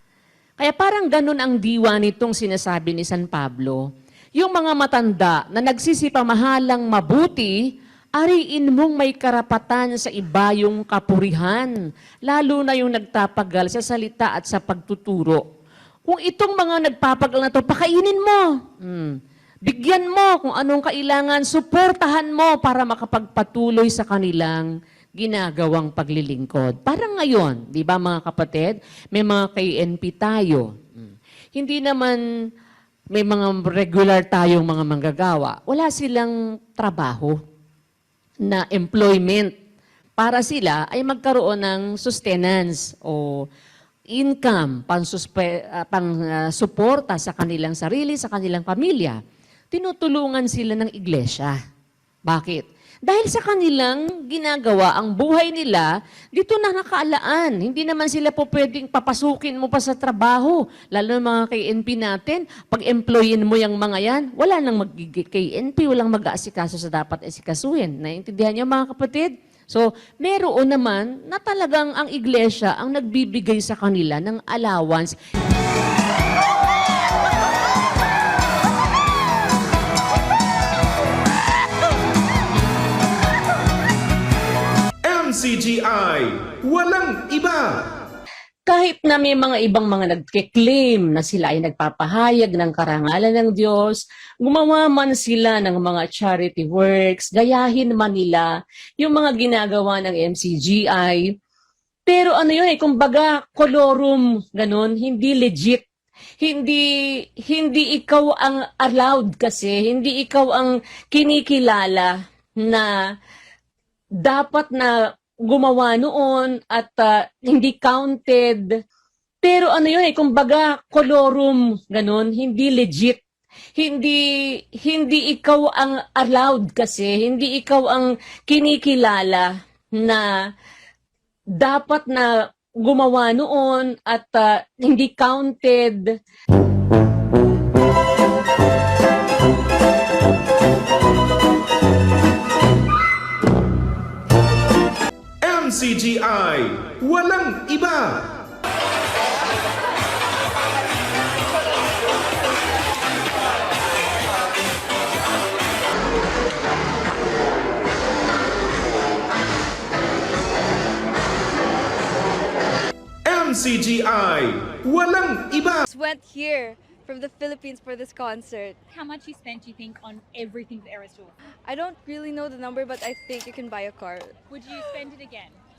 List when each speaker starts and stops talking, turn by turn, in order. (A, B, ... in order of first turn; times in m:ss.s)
0:00.6-0:03.8 A
0:04.4-0:07.5 A
0:08.2-0:11.7 A
0:12.2-0:15.4 A
0:16.0-0:32.2 A
0:33.1-0:37.4 A
0:38.4-0:39.5 A
0:40.2-0:43.4 A
0:44.1-0:49.2 A
0:49.7-0:51.6 A
0:52.2-1:15.1 A
1:25.0-1:27.9 B
1:28.7-1:38.5 A
1:39.0-1:41.3 A
1:42.1-1:45.8 A
1:46.4-1:46.8 A
1:47.4-1:52.9 A
1:54.2-1:58.6 A
1:59.4-2:03.2 A
2:03.8-2:10.3 A
2:11.6-2:16.1 A
2:25.4-2:28.4 B
2:43.2-2:45.9 B
2:45.9-2:48.8 C
2:48.9-2:51.3 D
2:51.6-2:54.3 C
2:54.5-2:55.6 D